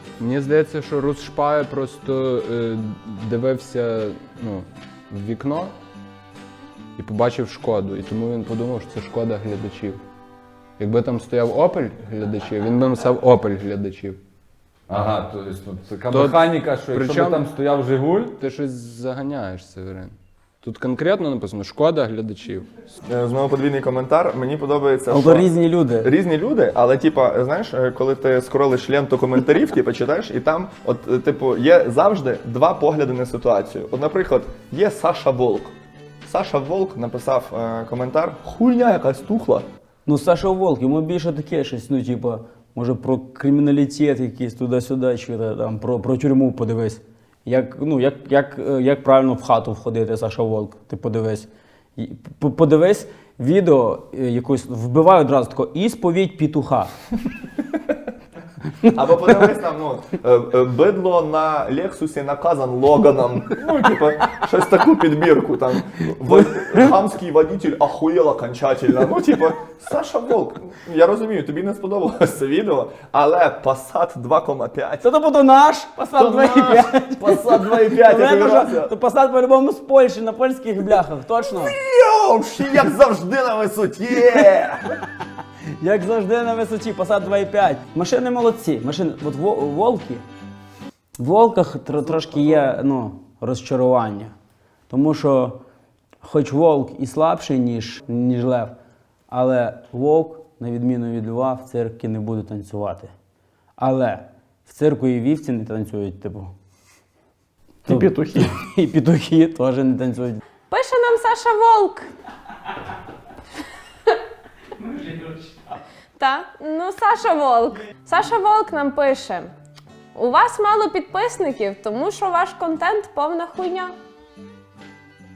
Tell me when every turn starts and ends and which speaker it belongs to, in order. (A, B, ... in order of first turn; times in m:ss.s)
0:00.2-0:05.7 A
0:07.0-0:10.0 A
0:10.8-0:14.2 A
0:14.9-0:18.4 B
0:16.1-0:17.4 A
0:18.4-0:22.7 A
0:23.0-0:25.5 C
0:25.1-0:26.1 D
0:26.0-0:35.7 C
0:36.2-0:39.7 C
0:40.0-0:56.9 D
0:58.9-1:15.0 C
1:06.3-1:06.8 D
1:15.0-1:21.8 D
1:16.1-1:18.9 C
1:21.6-1:24.8 C
1:25.8-1:30.2 D
1:31.2-1:34.3 D
1:34.9-1:35.6 D
1:36.2-1:38.7 D
1:39.3-1:43.1 D
1:43.8-1:46.5 D
1:47.8-1:50.4 D
1:50.7-1:52.1 E
1:55.1-1:55.3 D
1:56.2-1:59.5 E
2:00.1-2:03.9 E